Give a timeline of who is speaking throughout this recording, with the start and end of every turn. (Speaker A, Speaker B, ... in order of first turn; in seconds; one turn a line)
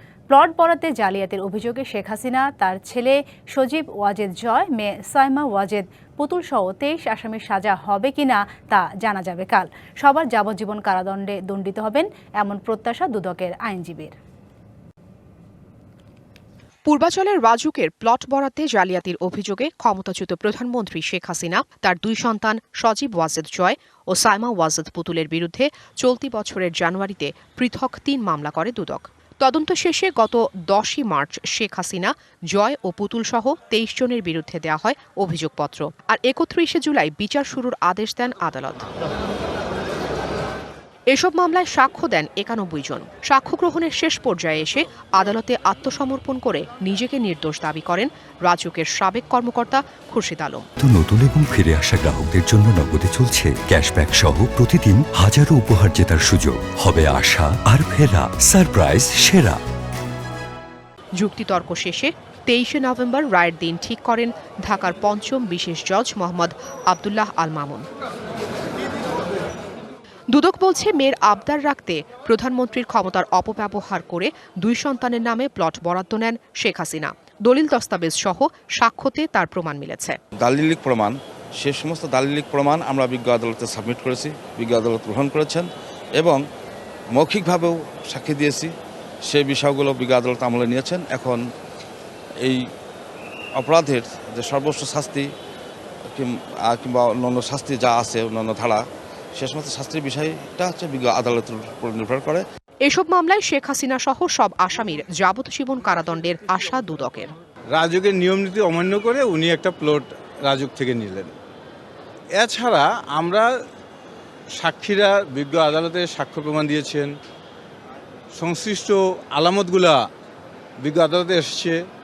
Speaker A: 0.3-14.2
Speaker B: 16.9-38.9
Speaker B: 41.1-50.6
Speaker C: 50.8-59.6
Speaker B: 61.2-67.9
Speaker B: 70.3-80.2
Speaker D: 80.4-86.4
Speaker D: 87.1-88.7
Speaker D: 89.3-91.4
Speaker D: 93.6-95.3
Speaker D: 96.0-98.8
Speaker D: 99.3-102.4
Speaker B: 102.8-107.3
Speaker E: 107.7-111.3
Speaker E: 112.3-113.5
Speaker E: 114.6-117.1
Speaker E: 118.4-120.0
Speaker E: 120.8-121.8